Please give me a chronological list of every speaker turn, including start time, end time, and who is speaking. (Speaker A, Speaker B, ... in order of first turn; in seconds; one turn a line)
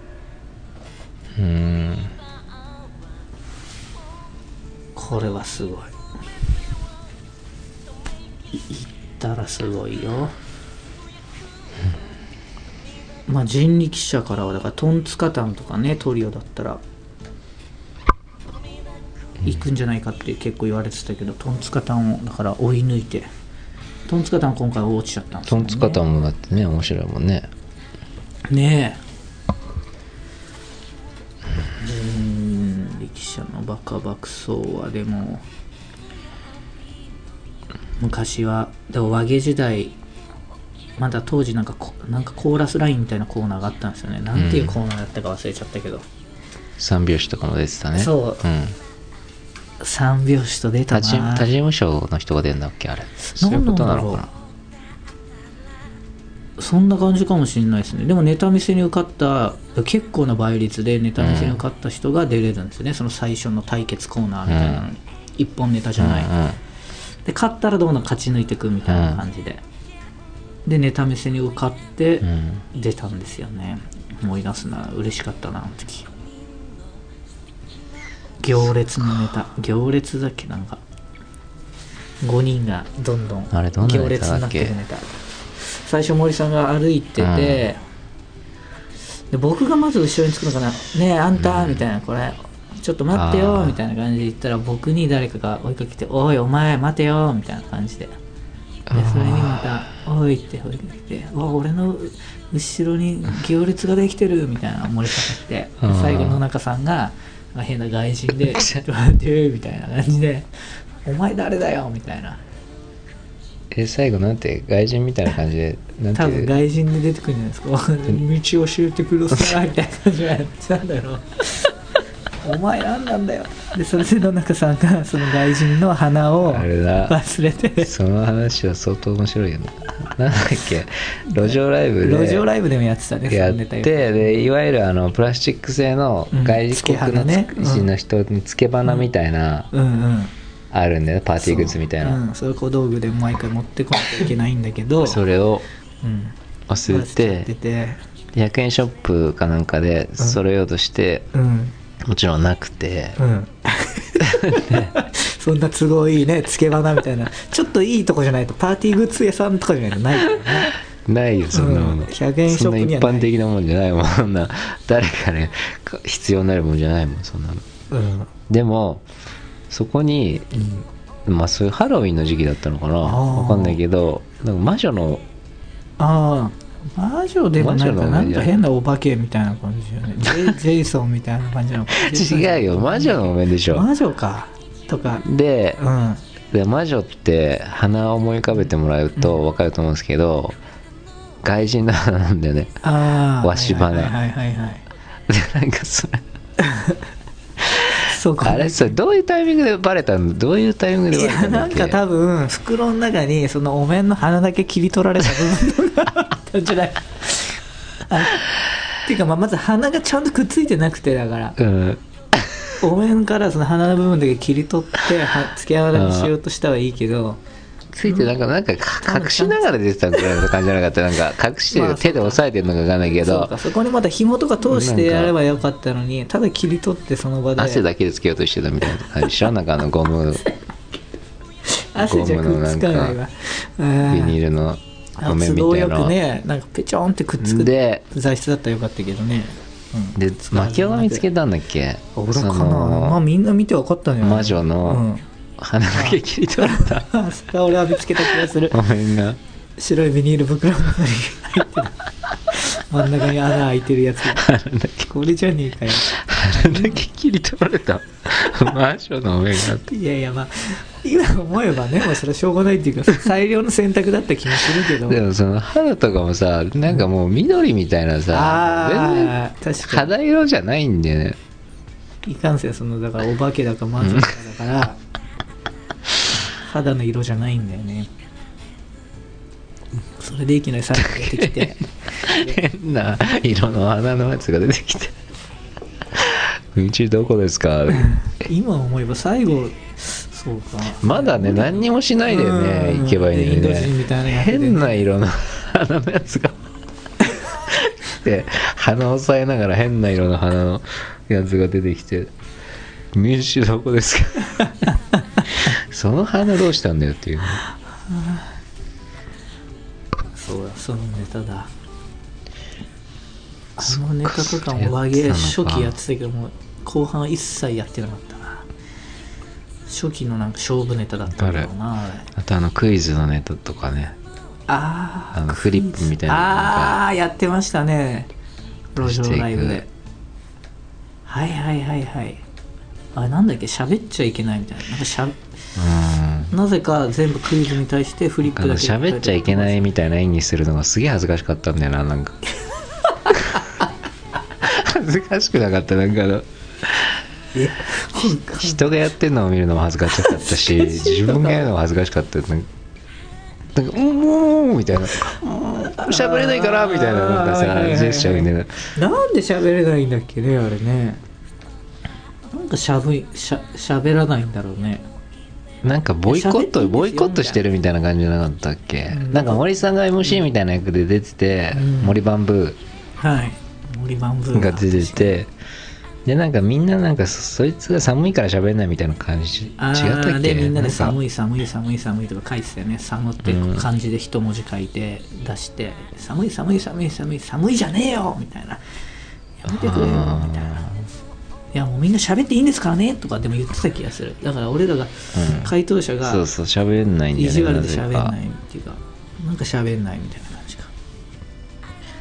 Speaker A: 1.4-2.1
Speaker B: 5.0-5.9
Speaker B: 8.5-10.4
Speaker B: 13.3-16.8
Speaker B: 19.4-23.3
Speaker B: 24.1-26.0
Speaker A: 25.5-27.5
Speaker B: 28.5-29.0
Speaker B: 31.8-35.5
Speaker B: 38.0-40.0
Speaker B: 41.0-46.0
Speaker A: 44.4-44.8
Speaker A: 46.8-48.8
Speaker B: 48.0-48.4
Speaker B: 49.8-51.5
Speaker A: 50.9-54.3
Speaker B: 53.2-54.3
Speaker B: 56.6-66.3
Speaker A: 61.2-61.6
Speaker A: 64.5-64.8
Speaker A: 66.0-66.6
Speaker B: 67.2-69.6
Speaker A: 68.9-69.2
Speaker B: 70.7-76.1
Speaker A: 72.2-72.6
Speaker B: 78.4-80.8
Speaker B: 82.2-87.8
Speaker A: 83.5-84.8
Speaker A: 87.2-87.6
Speaker B: 89.3-98.2
Speaker A: 91.4-91.8
Speaker A: 93.1-93.8
Speaker A: 98.9-99.7
Speaker B: 98.9-110.5
Speaker A: 105.8-106.4
Speaker A: 108.5-108.8
Speaker B: 111.0-112.4
Speaker A: 113.7-116.5
Speaker B: 116.2-121.7
Speaker B: 122.4-127.9
Speaker A: 126.4-127.2
Speaker A: 127.8-132.5
Speaker B: 131.3-134.4
Speaker A: 133.3-139.7
Speaker B: 136.3-137.9
Speaker B: 139.7-140.3
Speaker A: 140.7-142.2
Speaker B: 141.4-145.2
Speaker A: 145.0-145.7
Speaker B: 146.0-148.0
Speaker A: 146.7-147.5
Speaker A: 148.3-151.3
Speaker B: 151.3-151.7
Speaker A: 152.0-153.2
Speaker B: 153.2-160.8
Speaker A: 154.2-154.9
Speaker A: 161.1-167.6
Speaker B: 161.5-163.3
Speaker B: 167.9-168.3
Speaker A: 168.5-169.1
Speaker A: 169.7-175.2
Speaker B: 173.0-173.8
Speaker B: 176.0-185.2
Speaker A: 177.6-178.6
Speaker A: 181.9-183.9
Speaker A: 185.2-185.8
Speaker B: 185.8-186.2
Speaker A: 186.5-190.6
Speaker A: 191.4-192.8
Speaker B: 192.8-194.8
Speaker A: 193.3-194.2
Speaker A: 195.3-196.2
Speaker B: 196.6-197.0
Speaker A: 197.6-202.0
Speaker B: 198.1-198.9
Speaker B: 201.1-208.4
Speaker B: 209.0-211.6
Speaker A: 211.6-212.7
Speaker B: 212.8-217.4
Speaker A: 215.9-216.3
Speaker A: 217.9-223.5
Speaker B: 219.0-220.4
Speaker B: 221.7-222.4
Speaker B: 223.0-227.8
Speaker A: 224.7-225.3
Speaker A: 227.6-230.5
Speaker B: 231.6-234.4
Speaker A: 232.0-233.2
Speaker A: 234.1-236.2
Speaker B: 235.2-241.3
Speaker A: 237.4-238.0
Speaker A: 240.2-243.2
Speaker B: 242.2-245.2
Speaker A: 244.2-245.1
Speaker A: 245.6-247.2
Speaker B: 245.9-248.8
Speaker A: 248.7-249.4
Speaker B: 249.8-254.5
Speaker A: 254.3-255.1
Speaker B: 255.0-257.0
Speaker A: 256.0-259.9
Speaker B: 259.8-265.2
Speaker A: 264.8-271.4
Speaker B: 268.3-270.1
Speaker B: 272.2-275.0
Speaker A: 274.0-274.3
Speaker B: 276.4-278.1
Speaker B: 280.2-282.6
Speaker A: 281.1-285.1
Speaker A: 286.1-288.2
Speaker B: 288.0-295.0
Speaker A: 291.0-296.6
Speaker A: 297.5-302.3
Speaker A: 303.1-304.9
Speaker B: 305.1-305.4
Speaker A: 305.5-307.6
Speaker B: 308.1-308.5
Speaker B: 310.3-311.7
Speaker B: 313.8-318.7
Speaker A: 313.8-315.9
Speaker B: 319.9-322.3
Speaker A: 321.4-321.7
Speaker A: 322.3-324.2
Speaker B: 324.7-328.3
Speaker A: 325.3-327.0
Speaker B: 328.9-329.9
Speaker A: 329.0-329.8
Speaker B: 331.3-332.4
Speaker B: 333.1-335.4
Speaker A: 335.8-336.5
Speaker B: 336.5-339.8
Speaker A: 338.4-342.4
Speaker B: 343.2-343.6
Speaker A: 344.6-347.2
Speaker B: 347.6-348.9
Speaker A: 348.6-352.7
Speaker B: 350.2-351.7
Speaker A: 353.7-358.9
Speaker B: 355.6-361.2
Speaker B: 362.5-365.1
Speaker A: 365.8-372.8
Speaker B: 366.3-367.6
Speaker B: 369.1-369.7
Speaker B: 371.7-372.2
Speaker B: 373.2-375.4
Speaker A: 374.5-375.5
Speaker A: 376.3-381.2
Speaker B: 379.8-388.8
Speaker A: 383.4-383.9
Speaker B: 389.6-390.9
Speaker A: 389.7-391.1
Speaker B: 391.7-396.4
Speaker A: 395.4-398.3
Speaker B: 397.3-400.9